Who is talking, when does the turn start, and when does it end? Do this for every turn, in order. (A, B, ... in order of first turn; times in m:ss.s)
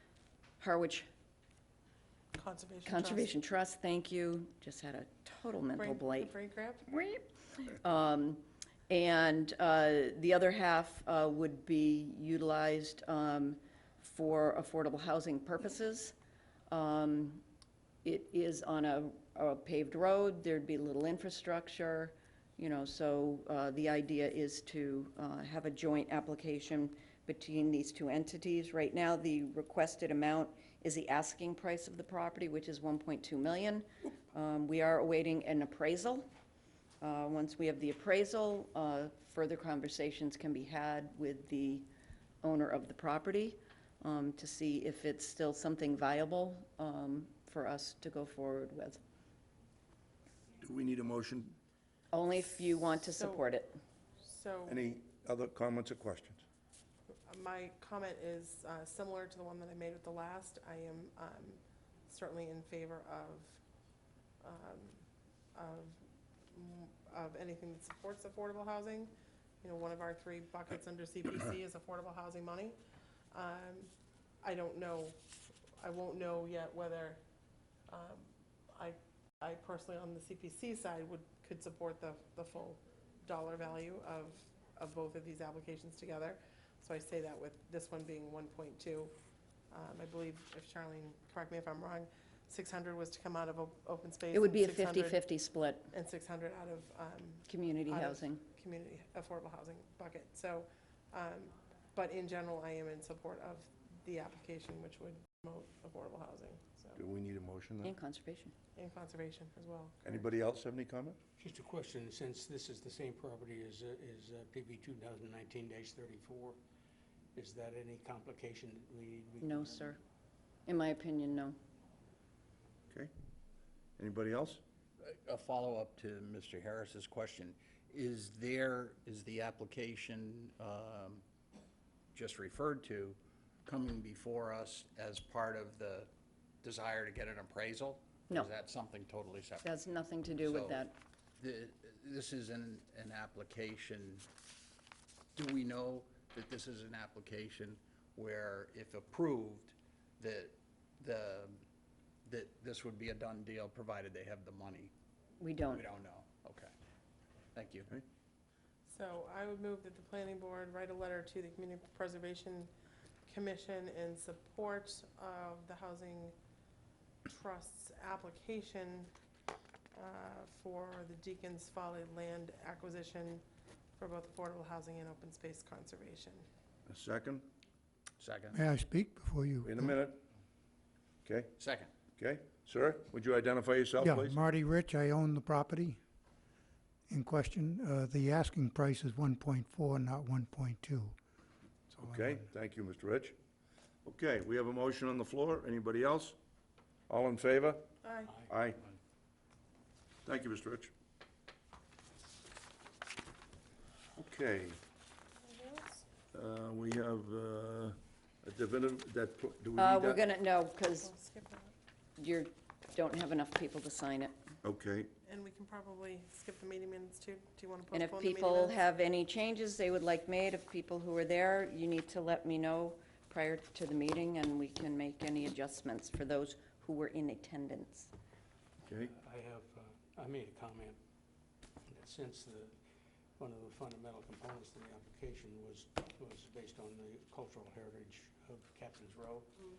0:00.6-0:01.1 A
0:02.3-0:03.3 B
0:02.8-0:06.3 A
0:05.7-0:06.8 B
0:06.9-0:16.1 A
0:16.7-0:17.4 A
0:18.0-0:36.3 A
0:37.0-0:41.8 A
0:42.4-0:49.0 A
0:50.6-0:51.6 C
0:52.1-0:53.7 A
0:53.2-0:53.4 B
0:54.2-0:54.8 B
0:54.7-0:56.4 C
0:57.3-1:03.6 B
1:04.4-1:05.0 B
1:05.5-1:06.0 B
1:06.5-1:09.1 B
1:09.6-1:12.8 B
1:13.3-1:13.9 B
1:14.4-1:15.2 B
1:15.8-1:17.2 B
1:17.9-1:29.1 B
1:29.7-1:35.2 B
1:34.3-1:35.9 A
1:35.9-1:47.0 B
1:37.5-1:38.4 A
1:47.0-1:47.9 C
1:47.8-1:48.5 A
1:48.8-1:50.0 B
1:50.0-1:51.2 C
1:51.4-1:56.6 D
1:57.3-1:59.8 D
1:59.4-2:00.0 A
2:00.7-2:01.6 A
2:04.0-2:04.6 C
2:05.0-2:11.2 E
2:12.1-2:16.1 E
2:16.6-2:19.7 E
2:19.6-2:21.0 A
2:20.4-2:20.8 E
2:21.4-2:24.2 E
2:25.3-2:31.6 E
2:32.2-2:34.9 E
2:35.4-2:35.8 A
2:35.7-2:36.7 E
2:37.5-2:37.9 E
2:38.8-2:42.7 B
2:43.3-2:46.3 B
2:47.2-2:49.1 B
2:49.9-2:53.4 B
2:54.0-2:56.4 B
2:56.9-2:57.5 C
2:58.2-2:58.6 E
2:58.5-3:00.0 F
2:59.6-3:00.2 C
3:01.2-3:01.5 C
3:01.6-3:01.9 E
3:02.2-3:04.4 C
3:04.0-3:06.0 F
3:07.1-3:11.2 F
3:11.9-3:12.4 F
3:12.0-3:13.4 C
3:14.0-3:16.4 C
3:17.1-3:17.8 C
3:18.0-3:18.4 B
3:18.5-3:18.8 C
3:20.2-3:20.9 C
3:24.2-3:24.8 C
3:25.4-3:26.0 B
3:26.3-3:30.2 C
3:29.8-3:31.1 A
3:31.0-3:31.7 B
3:32.2-3:34.3 A
3:34.6-3:35.1 C
3:35.2-3:38.8 B
3:37.9-3:48.1 A
3:48.9-3:49.1 C
3:49.1-3:51.0 D
3:51.9-3:52.7 D
3:53.4-3:59.5 D